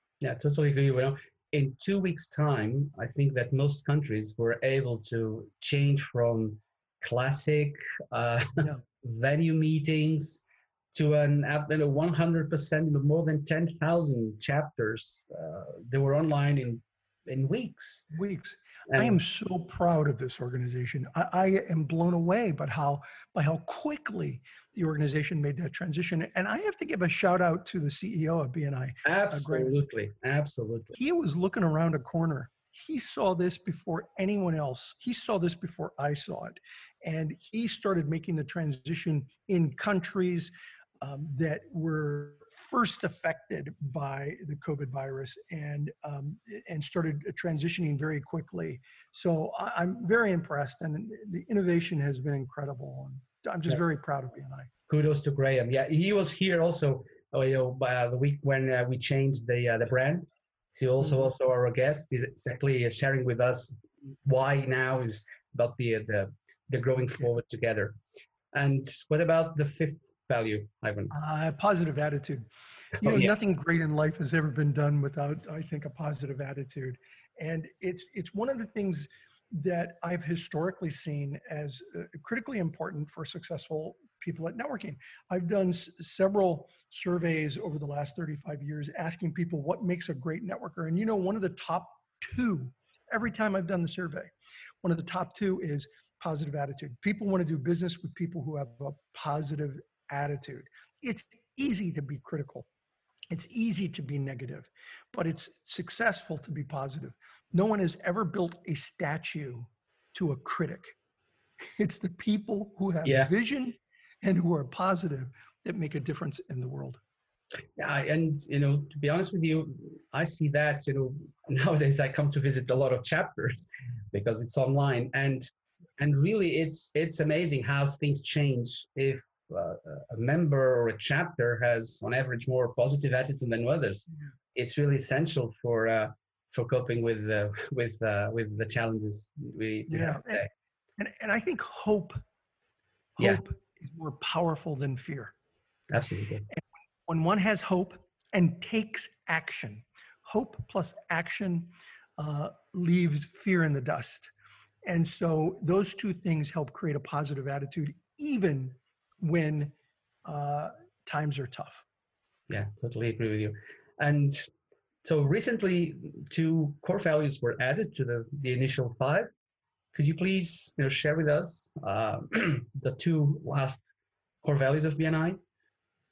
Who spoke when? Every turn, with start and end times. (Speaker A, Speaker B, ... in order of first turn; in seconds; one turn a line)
Speaker A: 0.2-18.1
Speaker B: 18.1-29.7
Speaker A: 18.9-19.2
Speaker A: 29.1-30.9
Speaker B: 30.9-54.7
Speaker A: 54.9-68.0
Speaker A: 68.5-71.1
Speaker B: 71.1-72.5
Speaker B: 73.0-94.3
Speaker A: 73.0-73.3
Speaker B: 94.8-102.7
Speaker B: 103.3-111.0
Speaker B: 111.8-117.0
Speaker A: 113.0-113.3
Speaker A: 117.8-140.5
Speaker B: 139.9-140.5
Speaker B: 141.0-142.2
Speaker B: 143.2-145.3
Speaker A: 145.9-146.5
Speaker B: 146.5-154.3
Speaker B: 154.8-159.7
Speaker B: 160.3-161.8
Speaker A: 162.5-164.5
Speaker A: 165.0-169.3
Speaker A: 169.9-173.9
Speaker A: 174.4-175.4